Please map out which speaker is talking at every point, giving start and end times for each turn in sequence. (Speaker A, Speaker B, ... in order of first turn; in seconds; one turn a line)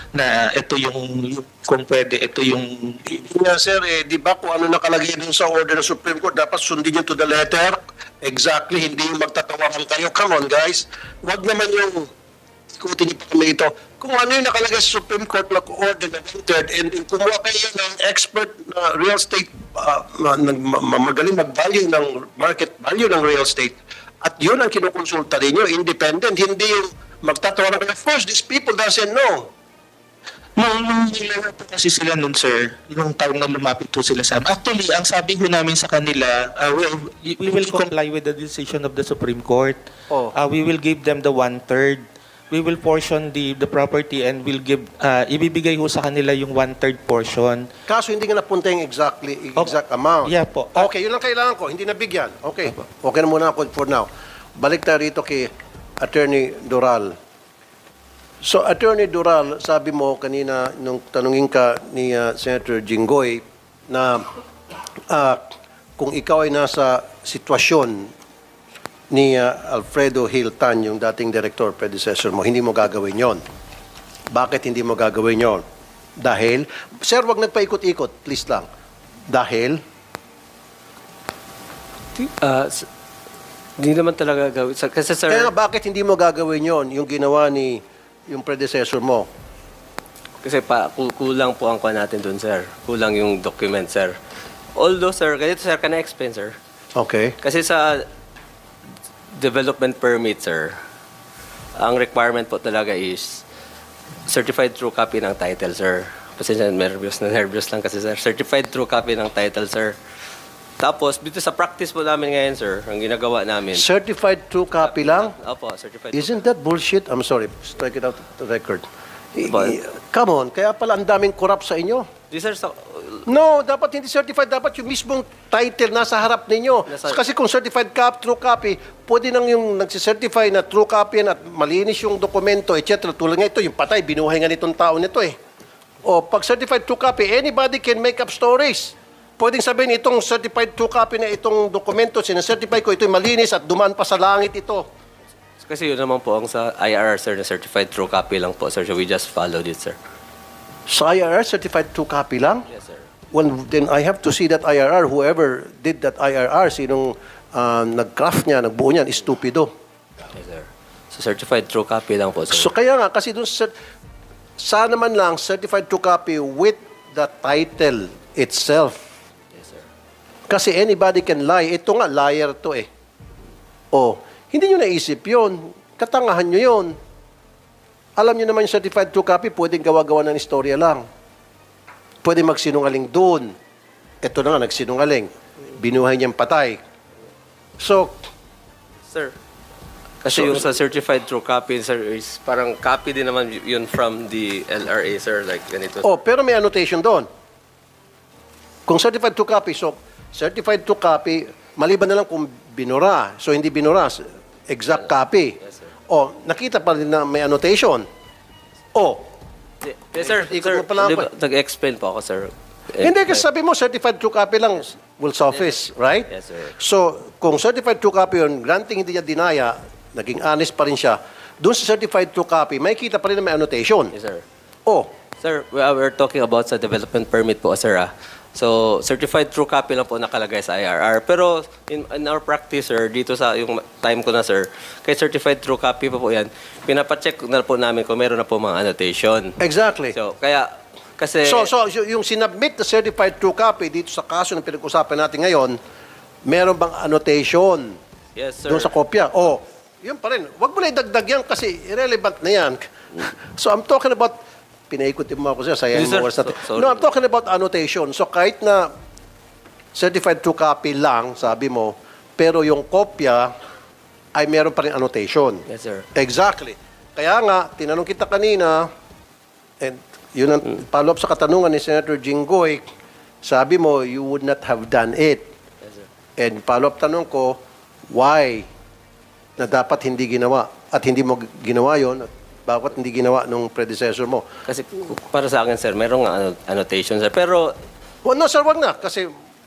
Speaker A: 0.1-3.3
Speaker B: 3.1-12.1
Speaker B: 12.8-29.5
Speaker A: 30.6-39.8
Speaker B: 40.1-40.3
Speaker A: 40.3-47.7
Speaker B: 47.9-55.5
Speaker A: 49.6-50.9
Speaker B: 56.0-57.1
Speaker B: 58.4-64.2
Speaker B: 65.1-65.4
Speaker B: 66.0-68.1
Speaker B: 69.1-73.4
Speaker B: 74.3-75.6
Speaker B: 76.2-78.7
Speaker B: 79.3-79.8
Speaker C: 82.1-82.9
Speaker C: 83.8-85.5
Speaker B: 85.3-89.3
Speaker C: 90.4-94.2
Speaker C: 94.8-96.5
Speaker B: 97.0-97.3
Speaker C: 97.4-98.0
Speaker C: 99.3-100.8
Speaker C: 101.8-103.4
Speaker C: 104.2-110.0
Speaker C: 110.8-113.8
Speaker B: 113.7-115.3
Speaker C: 114.8-116.4
Speaker B: 116.1-122.0
Speaker C: 119.4-119.8
Speaker C: 122.3-123.2
Speaker B: 123.2-135.3
Speaker C: 126.9-127.2
Speaker B: 136.0-144.9
Speaker C: 145.6-150.0
Speaker B: 150.9-152.7
Speaker C: 152.7-153.1
Speaker B: 153.3-159.7
Speaker C: 160.3-162.7
Speaker B: 162.5-163.7
Speaker B: 164.6-169.0
Speaker C: 169.5-169.8
Speaker B: 170.5-172.9
Speaker B: 173.9-176.9
Speaker B: 178.2-181.0
Speaker B: 182.2-183.5
Speaker B: 184.2-186.8
Speaker B: 187.8-188.2
Speaker C: 189.1-189.3
Speaker C: 190.2-196.2
Speaker B: 190.3-190.6
Speaker B: 196.0-197.3
Speaker B: 198.9-205.6
Speaker C: 204.9-205.9
Speaker B: 206.1-208.1
Speaker B: 208.9-209.3
Speaker C: 209.8-213.4
Speaker B: 210.2-211.3
Speaker B: 213.0-224.1
Speaker C: 215.5-216.8
Speaker C: 224.1-224.4
Speaker C: 225.4-239.6
Speaker B: 239.6-240.2
Speaker C: 240.1-241.7
Speaker B: 241.4-245.8
Speaker B: 246.5-248.0
Speaker C: 248.3-249.0
Speaker B: 248.7-252.8
Speaker B: 253.3-254.3
Speaker B: 254.9-258.9
Speaker C: 255.9-257.1
Speaker B: 259.9-263.5
Speaker B: 264.3-268.9
Speaker C: 265.7-266.1
Speaker B: 269.8-272.8
Speaker B: 273.4-275.4
Speaker B: 276.4-277.6
Speaker B: 278.1-278.7
Speaker B: 279.6-284.4
Speaker C: 284.6-287.7
Speaker B: 288.2-289.3